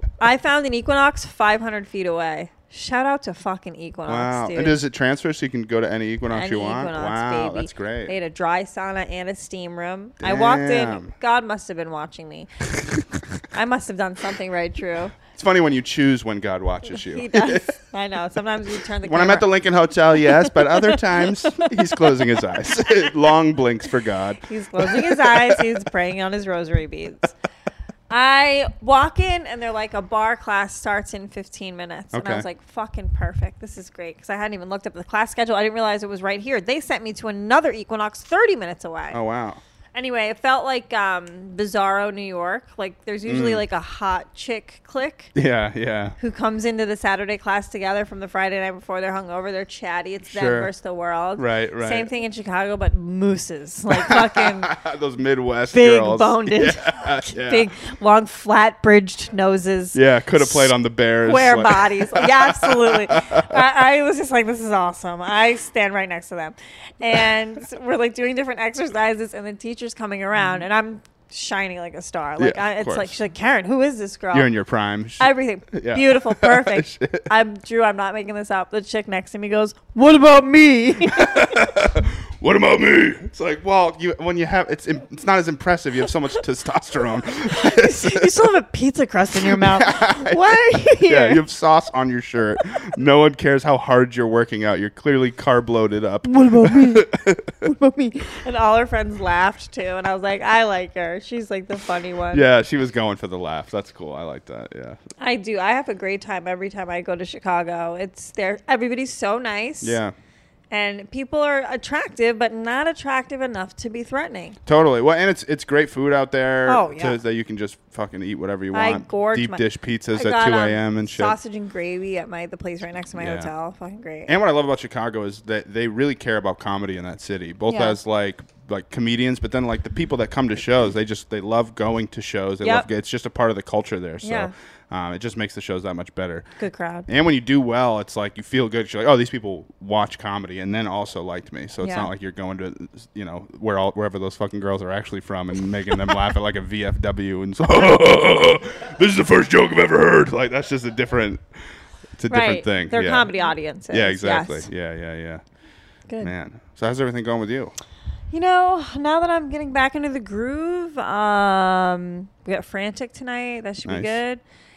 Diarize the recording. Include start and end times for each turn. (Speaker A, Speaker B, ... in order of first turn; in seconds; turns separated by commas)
Speaker A: 0.2-4.8, Speaker B: 4.1-8.1, Speaker A: 6.3-12.5, Speaker B: 10.2-11.1, Speaker B: 12.8-13.2, Speaker A: 13.5-15.1, Speaker B: 15.2-17.8, Speaker A: 17.0-19.5, Speaker B: 19.0-25.7, Speaker A: 20.2-22.3, Speaker A: 24.4-27.3, Speaker A: 28.1-39.2, Speaker B: 32.1-32.5, Speaker B: 39.1-39.6, Speaker A: 39.9-45.3, Speaker B: 43.2-43.6, Speaker B: 45.3-46.1, Speaker A: 46.2-54.7, Speaker B: 50.2-50.7, Speaker B: 51.4-52.1, Speaker B: 53.9-57.7, Speaker A: 55.7-74.5, Speaker B: 59.9-63.6, Speaker B: 72.4-73.2, Speaker B: 74.3-77.3, Speaker A: 75.2-81.7, Speaker B: 81.1-88.3, Speaker A: 87.5-91.4, Speaker B: 89.4-97.5, Speaker A: 96.2-97.1, Speaker A: 97.6-102.4, Speaker B: 102.3-105.0, Speaker A: 105.2-110.0, Speaker B: 109.8-110.1, Speaker A: 110.7-114.6, Speaker B: 114.7-121.4, Speaker A: 116.7-117.2, Speaker A: 118.7-124.3, Speaker B: 123.1-123.5, Speaker B: 124.3-136.4, Speaker A: 127.7-128.0, Speaker A: 132.6-132.9, Speaker A: 134.2-134.5, Speaker A: 136.6-137.1, Speaker B: 137.1-151.4, Speaker A: 141.8-142.1, Speaker B: 152.2-155.4, Speaker A: 152.3-154.7, Speaker B: 156.2-157.7, Speaker A: 158.3-164.4, Speaker B: 163.8-164.2